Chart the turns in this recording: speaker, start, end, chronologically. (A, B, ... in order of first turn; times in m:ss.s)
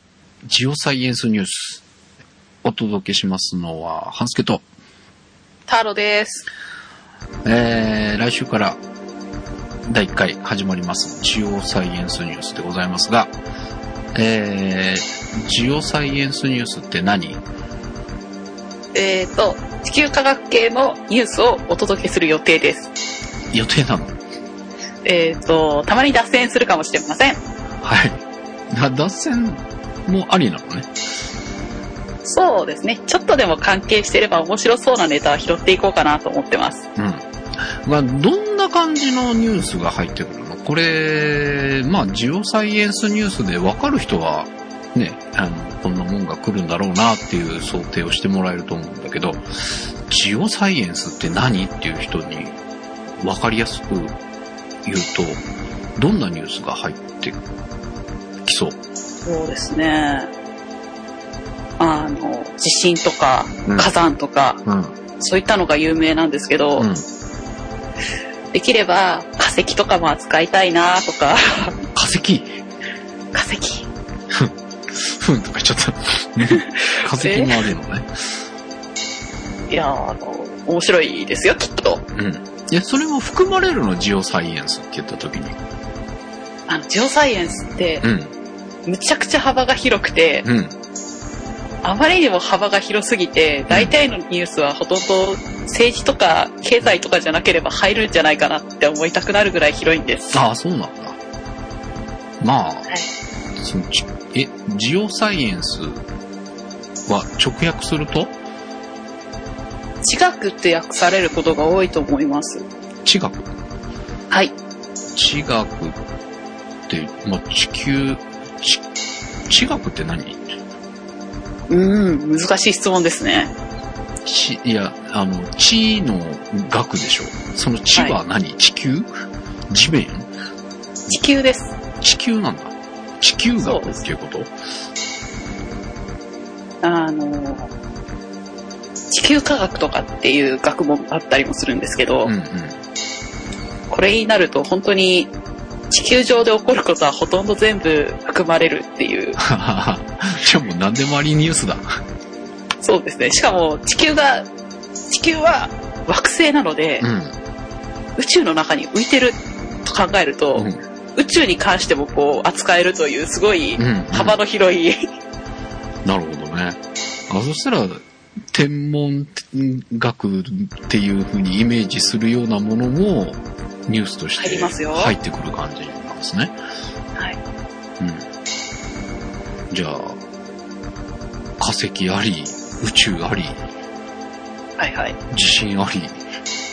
0:00.4-0:01.8 A
0:02.6-0:04.6 A
0:05.7-0:06.5 B
0:07.4-0:08.8 A
0:09.9-0:13.3 A
0:14.1-0:17.4 A
0:18.9-0:22.9 B
0:23.5-0:24.2 A
0:25.0-0:27.4 B
0:27.8-0:30.9 A
0:32.2-0:36.8 B
0:37.0-0:52.6 A
0:53.2-0:54.1 A
0:54.8-0:55.4 A
0:56.0-0:57.4 A
0:58.4-0:58.8 A
0:59.2-1:00.3 B
1:01.8-1:04.6 B
1:04.6-1:04.9 A
1:05.2-1:06.9 B
1:06.8-1:07.0 A
1:08.5-1:11.8 B
1:11.9-1:12.5 A
1:13.3-1:13.9 B
1:14.3-1:18.1 A
1:16.5-1:17.6 B
1:19.7-1:22.0 B
1:22.1-1:25.6 A
1:26.7-1:28.0 B
1:28.0-1:28.3 A
1:28.8-1:30.4 B
1:30.4-1:30.7 A
1:31.8-1:40.4 B
1:40.3-1:41.2 A
1:42.4-1:42.9 A
1:43.6-1:46.0 A
1:47.0-1:48.3 A
1:50.0-1:52.6 B
1:53.0-1:53.5 A
1:55.1-1:56.0 A
1:56.9-1:58.8 A
1:59.5-2:00.4 A
2:01.7-2:03.5 B
2:04.2-2:10.3 A
2:11.1-2:11.7 B
2:12.0-2:14.5 A
2:13.6-2:14.0 B
2:16.8-2:17.7 B
2:19.1-2:22.3 B
2:22.2-2:22.8 A
2:23.9-2:25.3 B
2:25.9-2:29.4 B
2:29.4-2:32.0 A
2:32.8-2:34.5 B
2:35.1-2:37.0 B
2:37.0-2:37.3 A
2:38.2-2:45.1 B
2:40.5-2:40.8 A
2:43.8-2:44.4 A
2:46.0-2:56.5 A
2:54.4-2:55.1 B
2:58.0-2:58.2 A
2:59.7-3:00.2 A
3:01.6-3:03.6 A
3:04.8-3:05.2 B
3:05.3-3:06.2 A